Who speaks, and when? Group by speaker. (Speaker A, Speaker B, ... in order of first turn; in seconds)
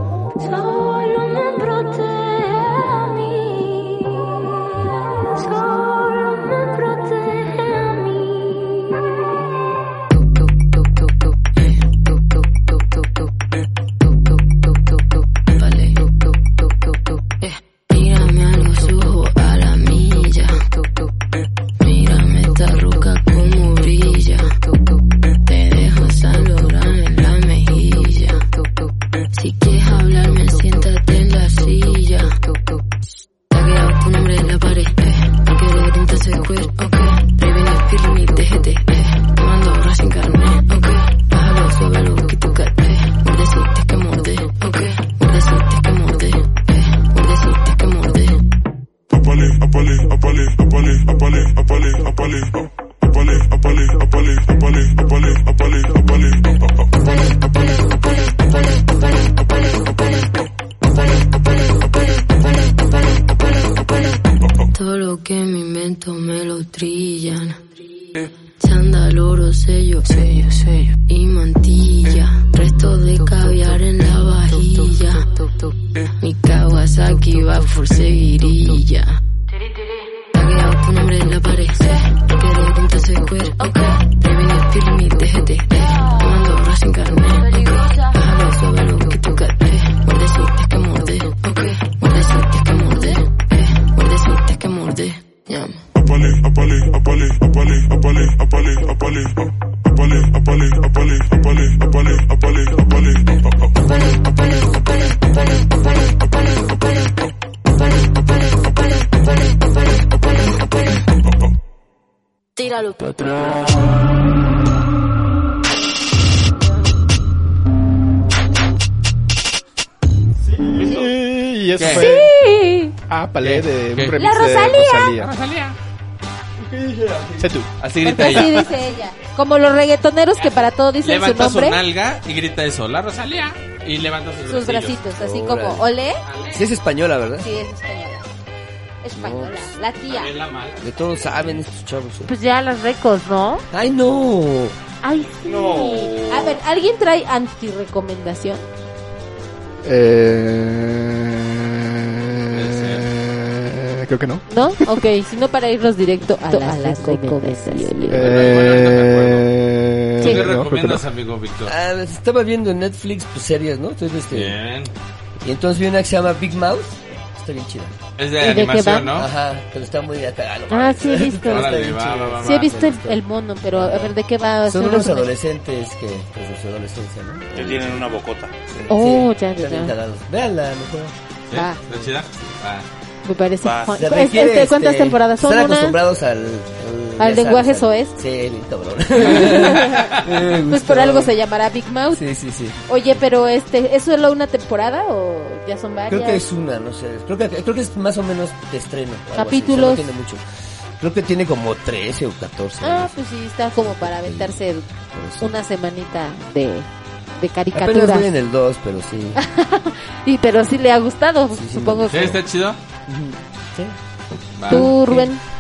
Speaker A: 0.4-9.5
Speaker B: 15.5-16.0, 17.4-20.6, 21.8-24.5, 25.4-28.4, 29.3-32.4, 33.5-48.4, 64.7-67.6, 68.6-75.5, 76.1-79.2, 80.3-95.8, 112.6-113.4
Speaker C: 120.8-121.1, 145.5-146.6, 177.5-178.5, 183.6-184.0
Speaker D: 120.8-122.3, 123.1-125.3, 127.4-127.7, 149.8-154.4, 158.1-161.0
Speaker E: 121.8-122.1, 123.4-124.2, 125.2-125.8, 127.8-128.7, 131.0-135.0, 136.2-136.6, 140.1-140.8, 152.5-153.1, 158.1-159.5, 160.2-161.7, 164.3-164.9, 168.2-169.3, 171.4-172.7, 181.5-182.8, 212.1-212.8, 214.6-214.9
Speaker F: 121.9-122.9, 124.2-125.2, 128.0-131.8, 134.5-136.2, 137.4-138.2, 139.0-140.3, 142.2-143.6, 145.0-148.6, 154.5-158.3, 168.4-169.1, 170.7-171.8, 172.4-175.3, 178.9-179.9, 181.5-181.8, 183.2-186.0, 187.2-188.2, 189.2-192.2, 192.8-196.4, 199.3-200.0, 202.8-206.9, 207.4-208.3, 209.3-212.4, 214.7-215.4
Speaker G: 126.7-127.5, 135.2-135.9, 136.5-137.6, 139.1-139.7, 140.8-142.3, 143.7-144.8, 161.7-164.6, 165.4-167.9, 169.1-173.2, 173.7-174.1, 174.7-178.1, 178.7-181.1, 183.9-191.3, 192.1-192.8, 196.1-200.4, 201.0-203.2, 203.7-204.5, 205.1-205.5, 207.7-209.4, 211.5-212.3, 213.1-213.9, 214.8-215.2